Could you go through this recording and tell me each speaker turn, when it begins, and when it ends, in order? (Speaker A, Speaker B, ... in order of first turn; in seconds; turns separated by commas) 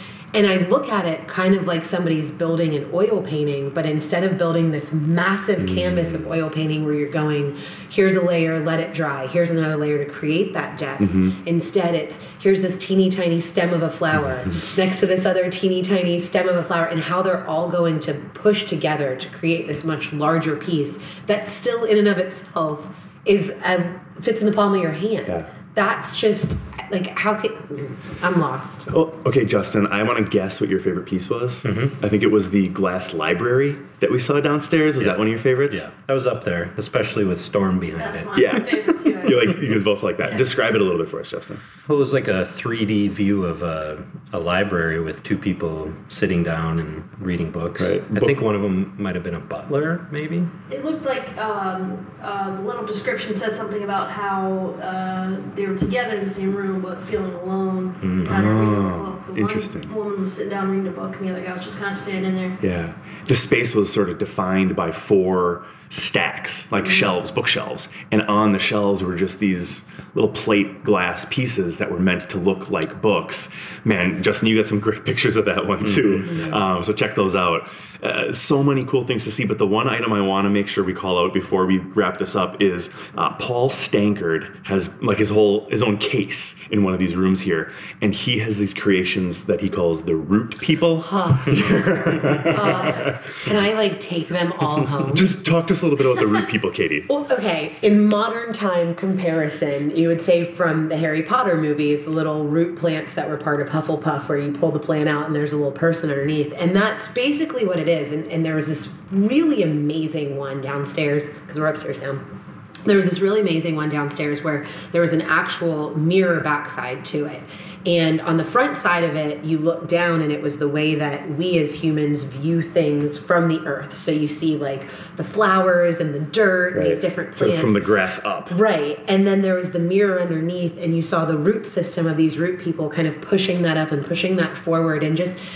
Speaker A: 0.3-28.9, Speaker B: 5.6-6.3, Speaker B: 11.0-11.4, Speaker B: 28.9-35.9, Speaker C: 31.6-31.9, Speaker C: 35.0-38.4, Speaker D: 38.0-39.7, Speaker B: 38.3-41.6, Speaker D: 40.2-40.5, Speaker C: 41.8-50.5, Speaker B: 47.8-48.4, Speaker D: 50.7-62.6, Speaker C: 58.0-58.4, Speaker B: 58.2-59.9, Speaker B: 62.6-93.1, Speaker C: 75.8-76.4, Speaker A: 91.0-91.9, Speaker A: 92.5-95.3, Speaker B: 95.1-97.1, Speaker A: 97.1-112.2, Speaker A: 112.8-127.8, Speaker B: 126.7-128.5, Speaker A: 128.5-135.4